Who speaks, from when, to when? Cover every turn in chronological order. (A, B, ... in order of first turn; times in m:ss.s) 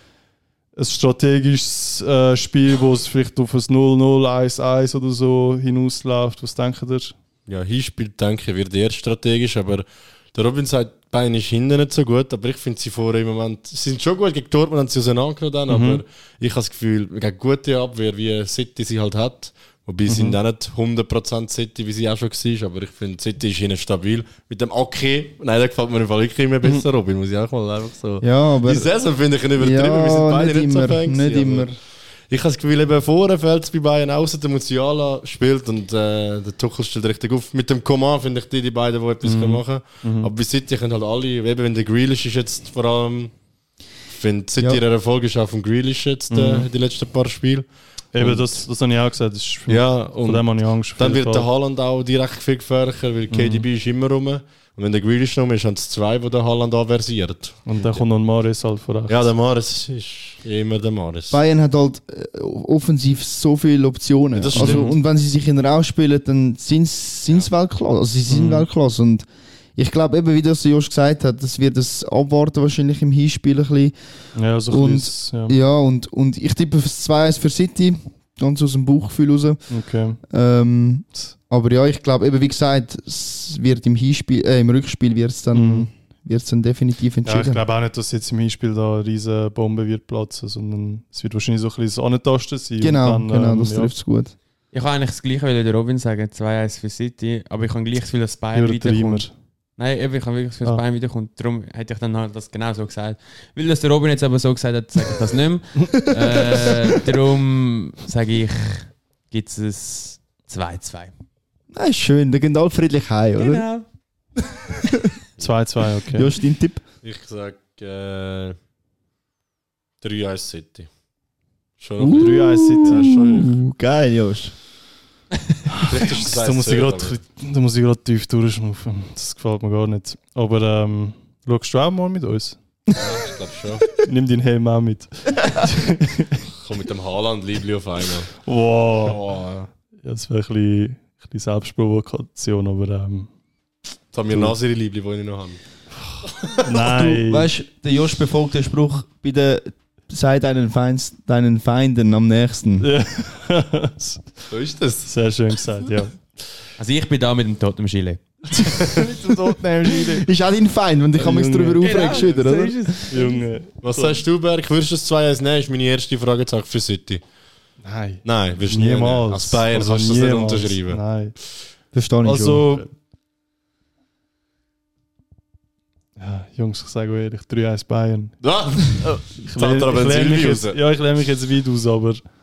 0:00.8-0:07.1 A
0:07.5-0:31.7 B
0:15.7-0:16.0 A
0:20.1-0:20.4 A
0:28.2-0:28.9 C
0:29.6-0:31.7 C
0:32.3-0:43.3 B
0:39.2-0:40.3 A
0:44.1-0:48.6 B
0:46.3-0:46.7 A
0:48.1-0:51.5 A
0:49.7-0:58.0 B
0:53.3-0:53.6 A
0:57.6-0:59.3 A
0:59.1-1:01.4 B
1:01.3-1:13.9 C
1:04.3-1:05.0 B
1:04.5-1:05.0 A
1:08.3-1:08.7 A
1:14.3-1:15.6 A
1:14.7-1:19.7 C
1:19.7-1:20.2 A
1:20.3-1:27.6 C
1:25.5-1:25.9 A
1:27.2-1:33.9 A
1:32.8-1:34.3 C
1:34.7-1:51.1 D
1:38.5-1:39.3 A
1:45.9-1:46.7 C
1:51.7-1:53.6 C
1:53.4-1:53.8 D
1:54.5-1:55.2 C
1:55.4-1:56.3 A
1:56.1-1:56.8 C
1:57.0-1:58.6 B
2:00.0-2:00.9 B
2:01.8-2:03.6 B
2:02.0-2:04.5 C
2:02.0-2:03.0 A
2:05.7-2:12.6 A
2:05.8-2:07.2 B
2:12.9-2:13.9 B
2:14.0-2:16.4 A
2:16.6-2:18.3 B
2:18.4-2:19.2 A
2:19.0-2:19.7 B
2:20.0-2:23.3 A
2:24.1-2:25.6 B
2:26.0-2:27.5 A
2:26.3-2:26.6 B
2:26.8-2:32.9 C
2:32.8-2:34.3 A
2:34.5-2:35.1 B
2:35.0-2:36.1 A
2:36.8-2:38.2 D
2:38.6-2:39.0 B
2:38.9-2:40.3 A
2:39.9-2:42.9 C
2:41.2-2:42.2 A
2:41.8-2:43.4 D
2:43.1-2:44.2 A
2:43.8-2:47.2 B
2:47.8-2:51.3 A
2:48.2-2:51.0 B
2:51.9-2:52.6 C
2:52.2-2:52.9 A
2:56.2-2:58.4 A
2:58.4-3:00.8 B
2:58.9-3:02.2 A